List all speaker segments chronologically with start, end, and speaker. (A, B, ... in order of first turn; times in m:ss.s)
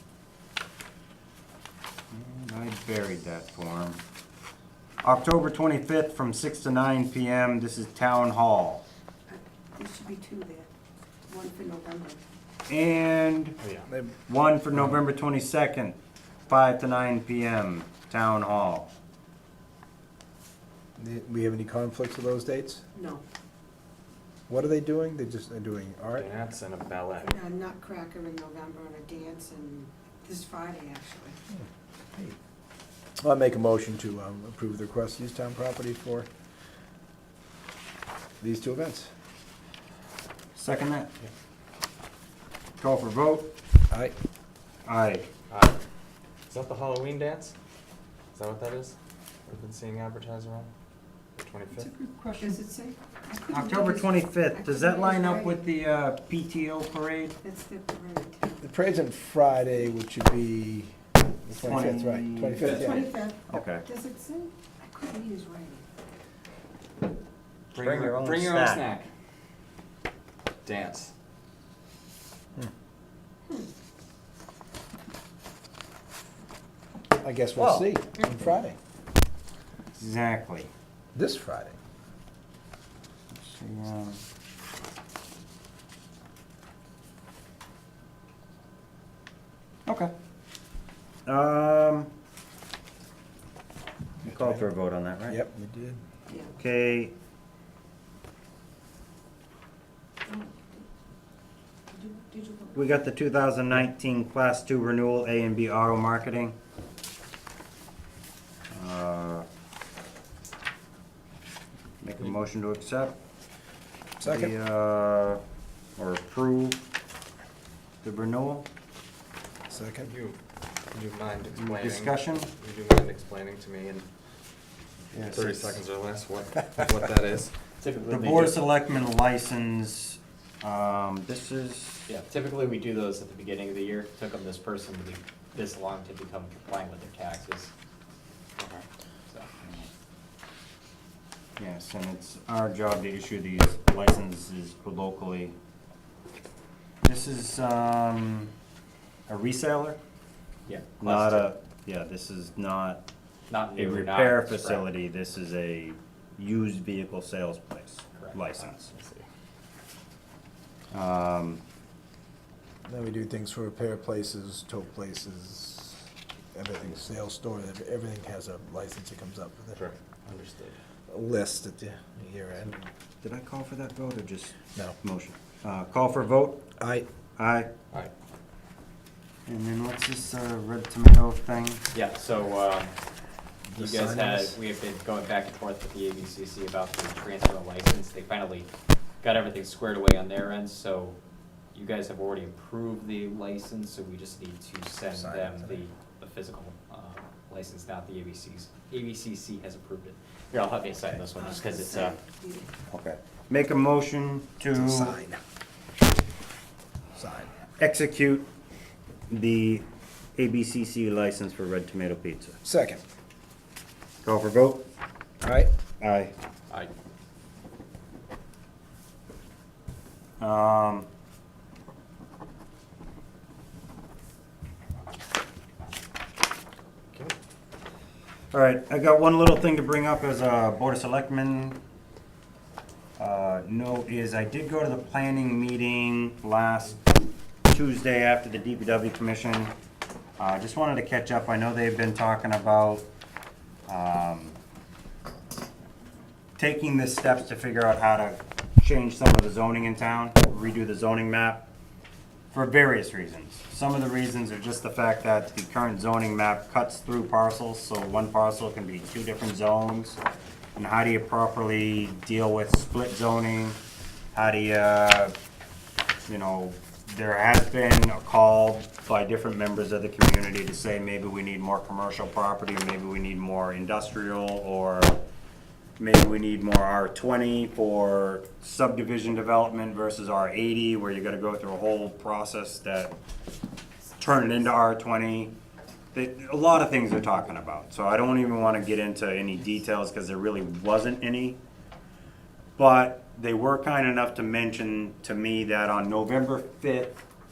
0:02.1-0:04.0 A
0:05.0-0:08.8 A
0:09.3-0:10.7 B
0:11.3-0:12.2 B
0:12.7-0:13.5 A
0:13.6-0:13.9 C
0:13.9-0:14.1 D
0:14.3-0:16.0 A
0:16.5-0:18.9 A
0:21.0-0:22.8 D
0:22.9-0:23.2 B
0:24.5-0:26.3 D
0:26.2-0:27.4 C
0:27.2-0:31.4 B
0:31.5-0:32.4 D
0:33.2-0:36.3 D
0:38.4-0:39.1 D
0:40.5-0:41.1 A
0:42.8-0:43.5 A
0:44.8-0:45.3 A
0:45.5-0:45.8 C
0:46.5-0:47.5 C
0:48.3-0:50.7 C
0:51.3-0:51.9 C
0:51.9-0:52.5 A
0:52.3-0:55.6 B
0:53.5-0:57.4 A
0:57.4-0:58.6 B
0:58.6-1:03.1 D
1:01.5-1:02.9 A
1:02.6-1:05.8 B
1:03.5-1:03.9 A
1:07.7-1:09.1 C
1:07.7-1:08.8 A
1:10.6-1:11.1 C
1:17.2-1:18.8 D
1:17.6-1:17.9 A
1:19.9-1:20.7 A
1:21.1-1:21.8 D
1:23.3-1:24.2 A
1:29.8-1:30.1 A
1:31.2-1:32.1 A
1:34.2-1:35.4 A
1:34.2-1:34.7 D
1:35.3-1:36.0 D
1:36.6-1:37.1 A
1:40.2-1:40.8 B
1:41.9-1:42.8 B
1:42.7-1:46.6 A
1:48.7-1:49.4 A
1:52.0-1:53.1 A
1:54.2-1:54.5 D
1:54.2-1:55.4 A
1:56.0-1:56.8 A
1:58.0-1:58.6 A
1:59.7-2:00.1 D
2:00.0-2:00.4 C
2:00.9-2:04.1 C
2:01.5-2:02.5 A
2:05.1-2:05.8 A
2:05.3-2:07.5 C
2:07.8-2:08.7 E
2:08.1-2:12.1 A
2:12.1-2:17.7 E
2:19.6-2:19.9 A
2:21.6-2:25.6 A
2:27.0-2:28.5 A
2:29.3-2:30.0 A
2:30.6-2:31.5 E
2:31.0-2:33.0 A
2:33.5-2:34.9 E
2:33.7-2:38.9 A
2:38.2-2:39.1 E
2:40.9-2:41.6 A
2:42.9-2:46.0 D
2:46.5-2:49.8 D
2:49.7-2:50.8 C
2:51.1-2:52.8 D
2:53.2-2:56.6 A
2:56.8-2:57.1 D
2:57.4-2:57.7 A
2:59.5-3:01.8 A
3:01.9-3:02.9 E
3:03.7-3:04.6 D
3:03.8-3:08.7 E
3:09.2-3:11.2 E
3:11.7-3:22.2 E
3:15.1-3:15.8 D
3:21.4-3:22.7 B
3:22.9-3:25.2 A
3:24.7-3:25.4 D
3:27.1-3:27.5 D
3:27.8-3:28.5 A
3:29.3-3:32.6 A
3:32.6-3:33.0 D
3:34.2-3:34.8 A
3:35.4-3:35.7 D
3:36.0-3:36.3 A
3:40.4-3:41.1 A
3:48.5-3:51.8 A
3:53.2-3:57.0 A
3:57.7-3:59.7 A
4:00.4-4:03.0 A
4:03.9-4:04.6 A
4:06.6-4:11.6 A
4:12.5-4:20.2 A
4:20.8-4:23.8 A
4:24.3-4:25.3 A
4:26.3-4:35.2 A
4:36.0-4:43.1 A
4:44.2-4:45.5 A
4:46.1-4:51.6 A
4:52.8-4:57.2 A